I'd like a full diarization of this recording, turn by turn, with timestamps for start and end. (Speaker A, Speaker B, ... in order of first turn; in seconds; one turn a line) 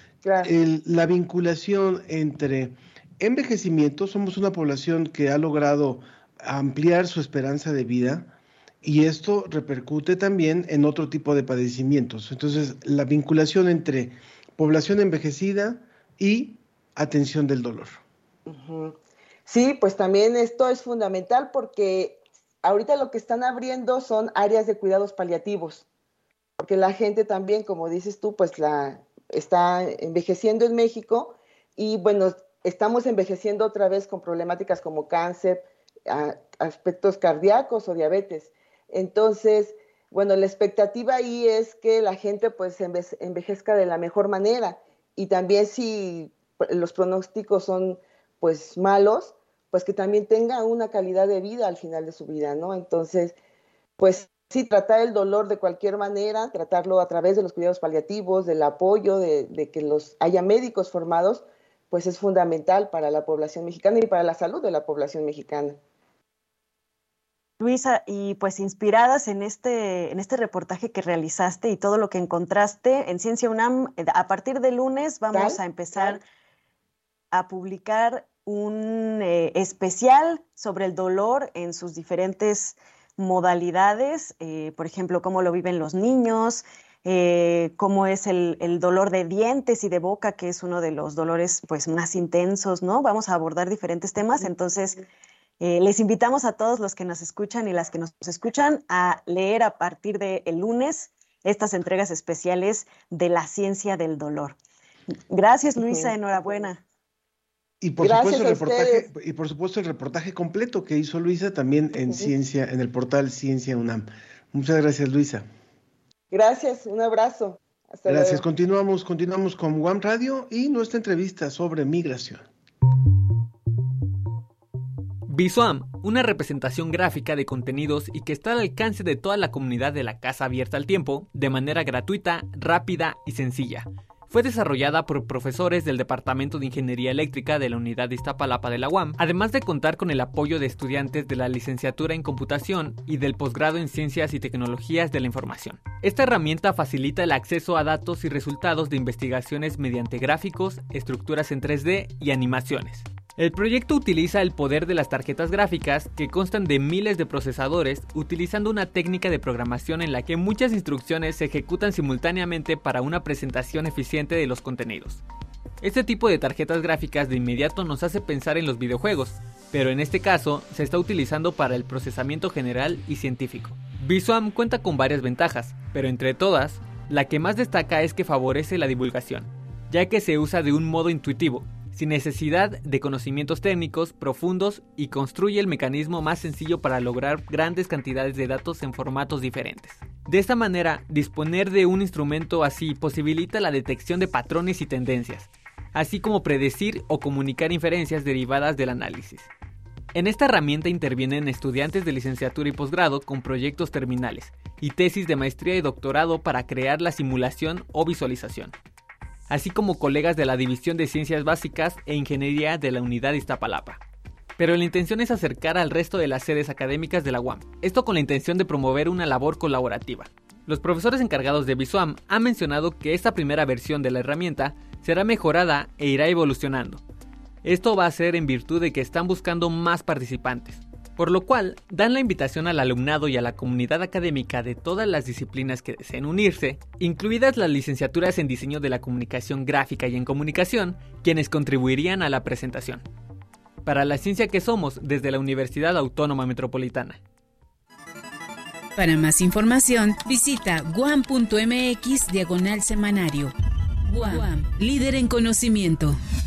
Speaker A: 0.2-0.5
Speaker B: 0.4-8.3
Speaker B: 8.8-18.0
Speaker A: 18.5-25.8
Speaker A: 26.6-53.4
Speaker A: 54.0-65.8
Speaker C: 67.6-76.2
Speaker A: 75.3-76.2
Speaker C: 77.3-95.0
Speaker C: 95.6-104.6
Speaker C: 105.3-106.8
Speaker A: 105.8-106.1
Speaker B: 107.8-115.5
Speaker A: 108.0-109.1
Speaker A: 116.3-118.4
Speaker B: 118.0-122.5
Speaker D: 125.3-165.2
Speaker D: 165.8-199.5
Speaker D: 200.1-208.7
Speaker D: 209.5-214.0
Speaker D: 214.6-227.0
Speaker D: 227.6-243.0
Speaker D: 243.8-247.2
Speaker E: 248.9-253.5
Speaker E: 254.1-256.1